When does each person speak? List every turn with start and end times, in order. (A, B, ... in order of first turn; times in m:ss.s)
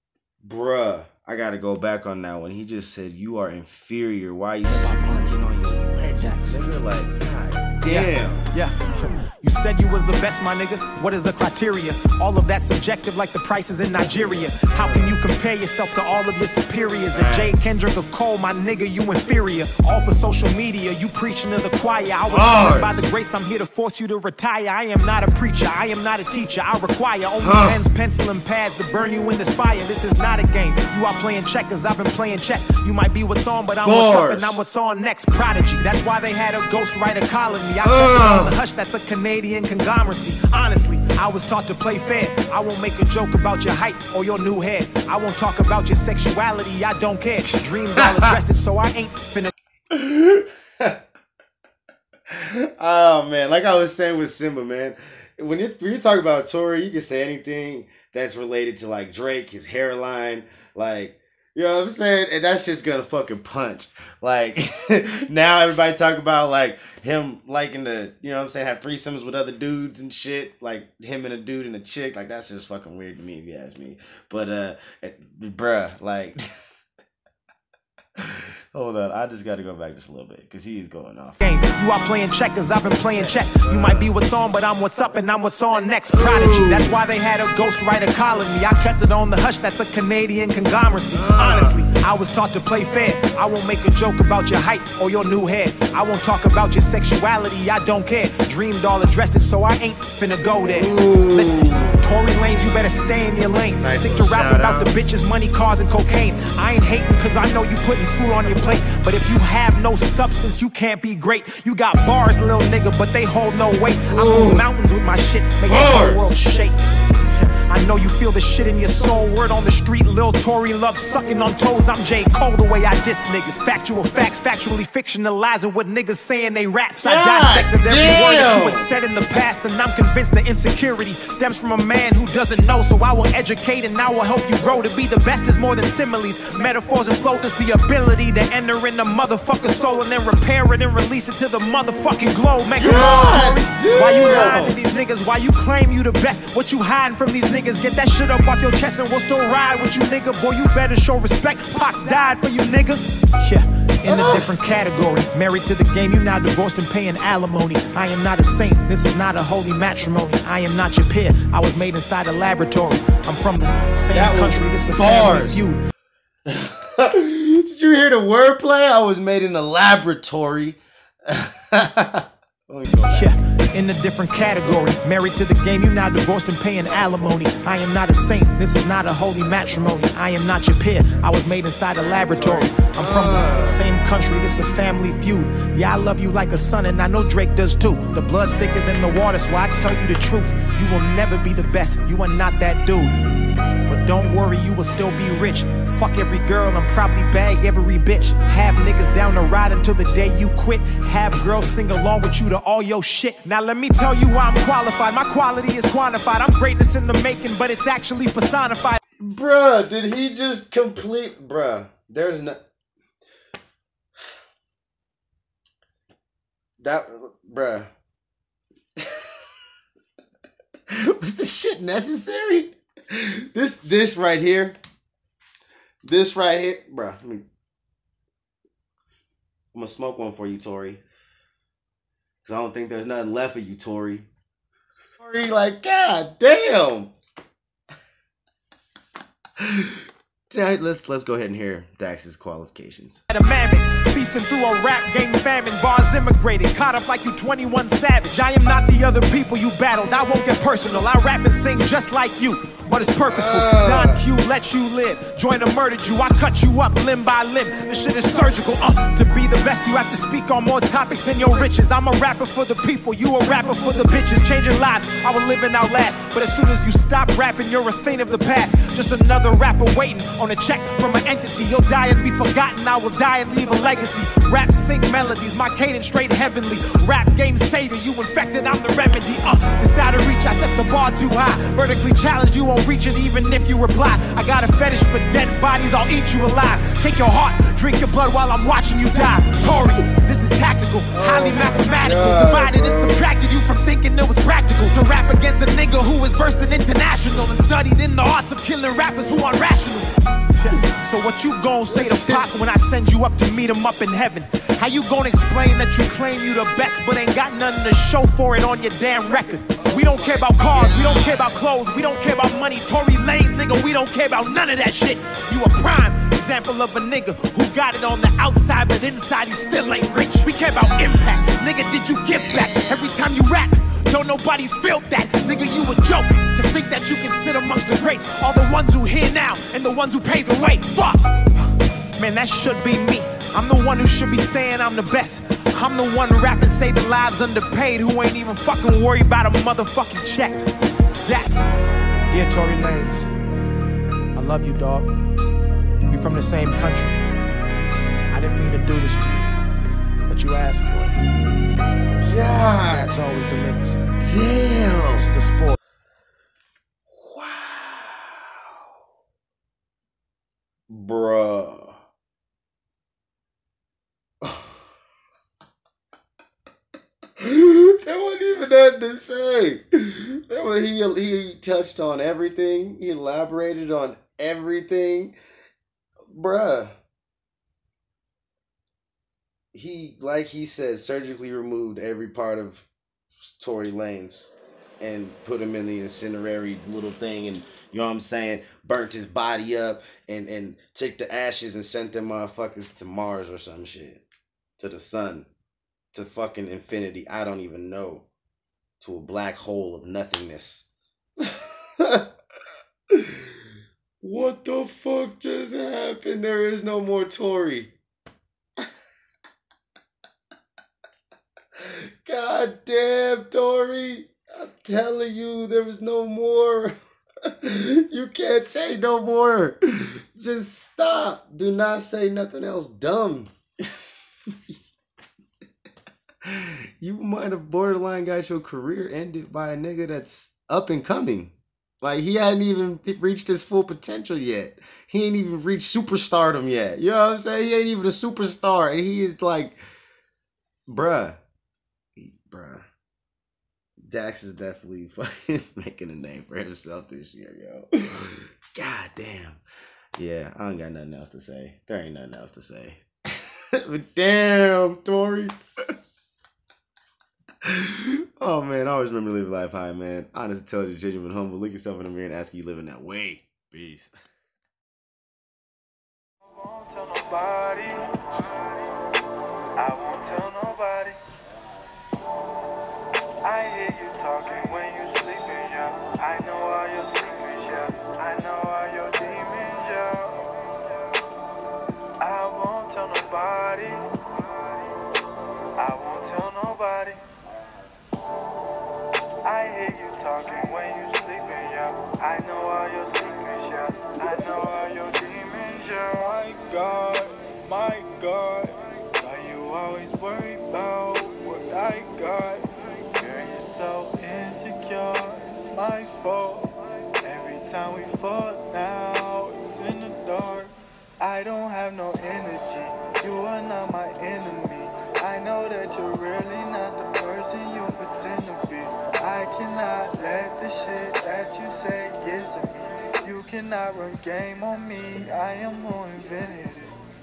0:00.4-0:08.4 A
0:04.6-0:05.4 B
0:06.2-0:06.6 B
0:07.8-0:49.5 B
0:14.3-0:15.2 A
0:17.1-0:17.7 A
0:22.3-0:23.0 A
0:27.4-0:27.8 A
0:33.8-0:34.6 A
0:37.8-0:38.5 A
0:48.0-0:48.3 A
0:49.9-0:51.0 A
0:52.3-1:16.4 A
1:18.2-1:21.4 A
1:21.4-1:56.8 B
1:23.1-1:24.1 A
1:26.1-1:27.0 A
1:31.1-1:31.8 A
1:40.7-1:42.0 A
1:43.8-1:44.9 A
1:54.1-1:54.6 A
1:55.7-1:56.3 A
1:57.4-2:45.8 B
2:07.0-2:08.9 A
2:22.8-2:24.8 A
2:34.0-2:34.5 A
2:44.1-2:45.6 A
2:46.5-2:53.3 A
2:53.1-3:13.2 B
3:02.0-3:03.8 A
3:13.9-3:29.0 B
3:29.2-3:32.6 A
3:36.8-3:37.9 A
3:41.1-3:44.8 A
3:46.0-3:47.4 A
3:49.7-3:51.0 A
3:52.4-3:54.3 A
3:55.2-3:57.1 A
3:59.6-4:00.0 A
4:00.5-4:03.2 A
4:03.3-5:31.4 B
4:13.2-4:14.2 A
4:51.2-4:53.2 A
5:01.9-5:02.4 A
5:09.8-5:11.4 A
5:32.2-5:40.6 B
5:41.1-5:41.6 B
5:42.3-5:43.3 B
5:44.4-5:45.1 B
5:46.1-5:47.2 B
5:48.3-5:49.5 B
5:50.3-5:51.2 B
5:52.2-5:53.1 A
5:52.7-5:54.0 B
5:54.2-5:55.3 A
5:55.2-5:55.8 B
5:57.1-5:58.6 A
6:00.9-6:02.0 A
6:04.4-6:04.8 A
6:07.4-6:15.4 A
6:16.3-6:16.9 A
6:19.7-6:22.9 A
6:23.5-6:34.2 A
6:34.8-6:35.5 A
6:36.1-6:38.3 A
6:39.0-6:40.9 A
6:41.4-6:42.2 A
6:43.1-6:43.5 A
6:44.2-6:47.9 A
6:51.8-6:57.0 A
6:57.5-7:03.5 A
7:06.4-7:19.8 A
7:20.9-7:21.4 A
7:22.2-7:22.8 A
7:24.0-7:29.6 A
7:30.2-7:35.5 A
7:37.6-7:44.2 A
7:46.5-7:48.4 C
7:49.8-7:51.2 C
7:53.4-8:00.5 C
8:02.2-8:04.0 C
8:05.8-8:07.2 C
8:09.4-8:26.7 C
8:27.2-8:47.0 C